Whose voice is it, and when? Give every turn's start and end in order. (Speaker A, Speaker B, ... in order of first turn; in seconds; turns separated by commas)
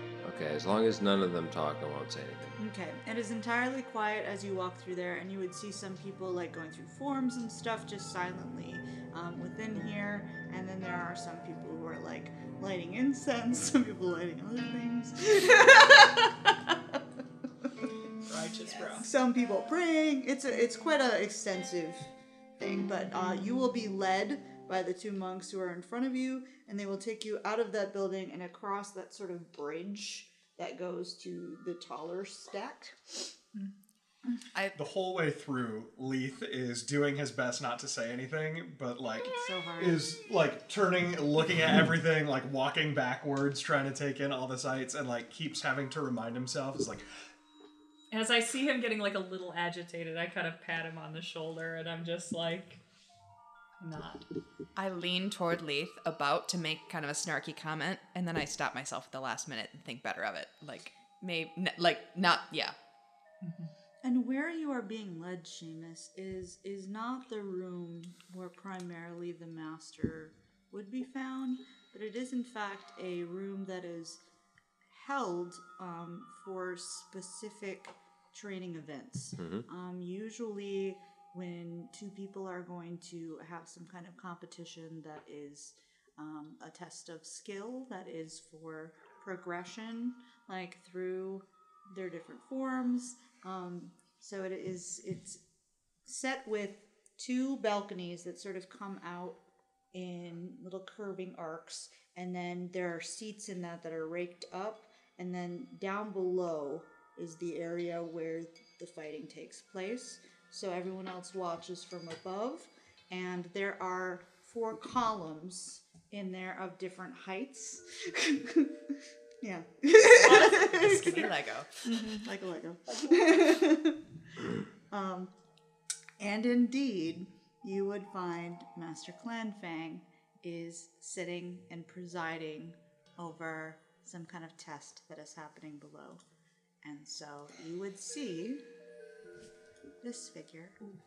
Speaker A: 0.2-2.6, Speaker B: 2.6-17.0, Speaker C: 18.3-19.1, Speaker B: 18.7-33.3, Speaker D: 34.7-47.1, Speaker B: 39.3-40.1, Speaker C: 48.1-52.8, Speaker C: 53.8-54.2, Speaker E: 54.8-62.7, Speaker C: 63.4-63.7, Speaker B: 64.0-74.2, Speaker B: 74.9-95.4, Speaker A: 79.4-79.6, Speaker B: 96.0-99.4, Speaker B: 99.9-121.3, Speaker C: 120.2-121.3, Speaker E: 120.2-121.8, Speaker B: 121.8-125.3, Speaker B: 126.2-136.2, Speaker B: 136.8-138.6, Speaker B: 140.0-140.8